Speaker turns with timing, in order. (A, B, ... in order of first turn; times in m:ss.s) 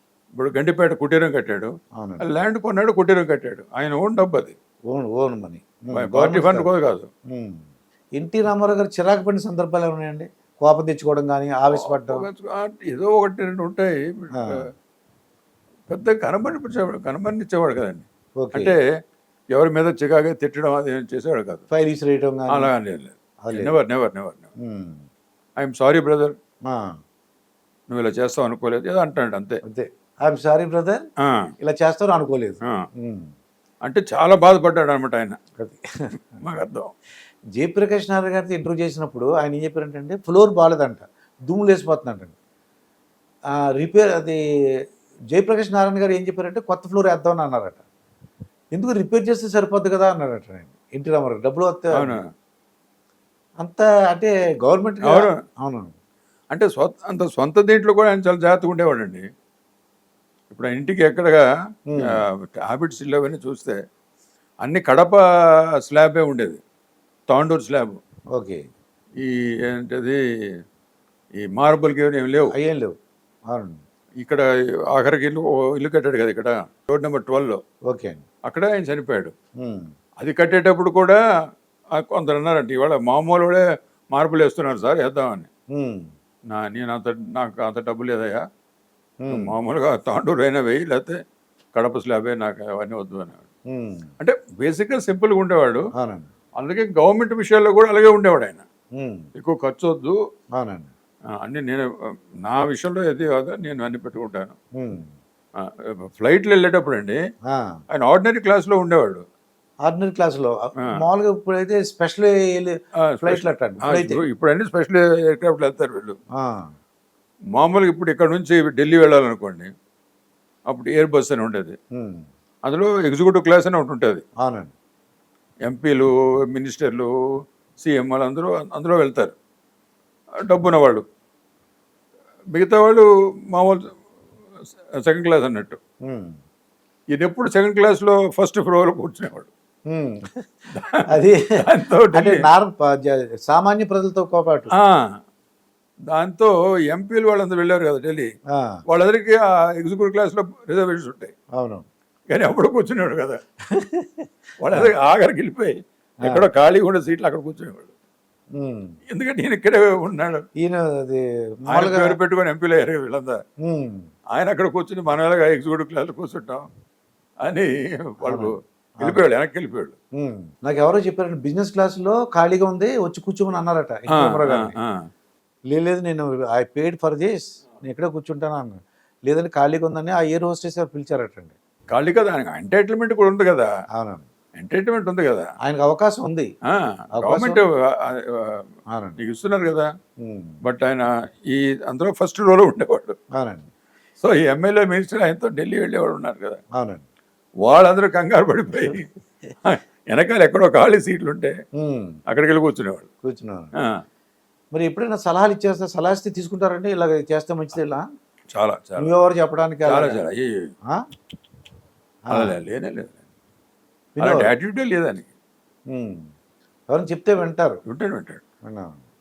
0:00.4-0:01.7 A
0:02.0-0:02.2 B
0:02.2-0:04.5 A
0:04.9-0:06.7 B
0:05.9-0:07.1 A
0:07.3-0:12.3 B
0:11.7-0:14.6 A
0:15.9-0:18.8 A
0:18.4-0:18.7 B
0:19.5-0:21.6 A
0:21.7-0:22.7 B
0:22.5-0:24.5 A
0:23.4-0:23.8 B
0:24.6-0:25.1 B
0:25.6-0:26.4 A
0:26.7-0:27.0 B
0:27.9-0:29.6 A
0:29.7-0:31.0 B
0:31.2-0:31.5 A
0:31.6-0:33.3 B
0:33.8-0:35.4 A
0:35.6-0:36.4 B
0:36.4-0:36.9 A
0:37.6-0:42.3 B
0:43.8-0:44.4 B
0:45.3-0:47.8 B
0:48.7-0:52.2 B
0:51.9-0:52.2 A
0:53.6-0:55.9 B
0:55.0-0:55.4 A
0:56.5-0:59.2 A
1:00.5-1:01.4 A
1:01.9-1:02.2 B
1:02.0-1:03.8 A
1:04.6-1:05.2 A
1:05.8-1:06.6 A
1:07.3-1:08.0 A
1:08.4-1:08.6 B
1:09.2-1:10.2 A
1:11.4-1:12.5 A
1:12.5-1:12.9 B
1:13.5-1:13.8 B
1:14.2-1:17.6 A
1:17.9-1:18.2 B
1:18.5-1:19.3 A
1:19.6-1:19.9 B
1:20.2-1:21.2 A
1:22.0-1:25.5 A
1:25.7-1:26.1 B
1:26.5-1:28.4 A
1:29.2-1:29.6 B
1:29.3-1:31.2 A
1:31.8-1:33.4 A
1:33.7-1:34.1 B
1:34.2-1:35.8 A
1:36.0-1:36.3 B
1:36.6-1:38.6 A
1:39.0-1:39.3 B
1:39.4-1:40.2 A
1:40.6-1:40.9 B
1:41.4-1:41.9 A
1:42.4-1:44.6 A
1:44.8-1:45.1 B
1:45.6-1:47.2 A
1:47.5-1:47.8 B
1:47.9-1:49.2 A
1:49.9-1:54.2 B
1:53.1-1:56.2 A
1:56.4-1:56.7 B
1:57.6-1:59.7 A
2:00.7-2:01.8 A
2:02.0-2:02.3 B
2:02.6-2:04.2 A
2:04.4-2:04.7 B
2:05.6-2:07.1 A
2:07.8-2:09.3 A
2:10.4-2:11.0 A
2:12.5-2:13.9 A
2:15.0-2:15.8 A
2:16.1-2:16.4 B
2:17.1-2:19.5 A
2:19.9-2:20.4 B
2:20.7-2:22.4 A
2:21.1-2:21.4 B
2:22.1-2:24.7 B
2:24.7-2:25.2 A
2:26.1-2:28.3 A
2:28.6-2:28.8 B
2:28.9-2:31.3 A
2:31.6-2:31.8 B
2:32.3-2:33.4 A
2:33.7-2:34.2 B
2:34.6-2:37.9 A
2:38.6-2:39.0 B
2:39.1-2:40.4 A
2:40.6-2:42.2 B
2:41.7-2:43.4 A
2:43.6-2:44.1 B
2:44.3-2:46.7 A
2:47.4-2:50.0 A
2:48.2-2:49.3 B
2:50.2-2:54.8 B
2:54.1-2:55.0 A
2:55.7-3:01.6 B
3:01.9-3:03.7 A
3:04.0-3:04.2 B
3:04.6-3:05.5 A
3:05.6-3:06.5 B
3:06.7-3:08.7 A
3:07.2-3:07.6 B
3:08.9-3:09.2 B
3:09.2-3:09.9 A
3:10.2-3:10.6 B
3:10.6-3:13.2 A
3:13.4-3:13.7 B
3:14.2-3:16.6 A
3:16.8-3:17.0 B
3:17.6-3:19.1 A
3:19.6-3:21.6 A
3:21.8-3:22.2 B
3:22.3-3:23.1 A
3:23.2-3:23.7 B
3:24.7-3:28.1 B
3:28.5-3:29.1 A
3:29.0-3:30.2 B
3:29.9-3:30.5 A
3:32.3-3:32.6 B
3:32.3-3:33.2 A
3:34.2-3:34.5 B
3:34.2-3:35.3 A
3:35.9-3:36.3 B
3:36.9-3:37.8 B
3:37.9-3:38.4 A
3:38.7-3:39.0 B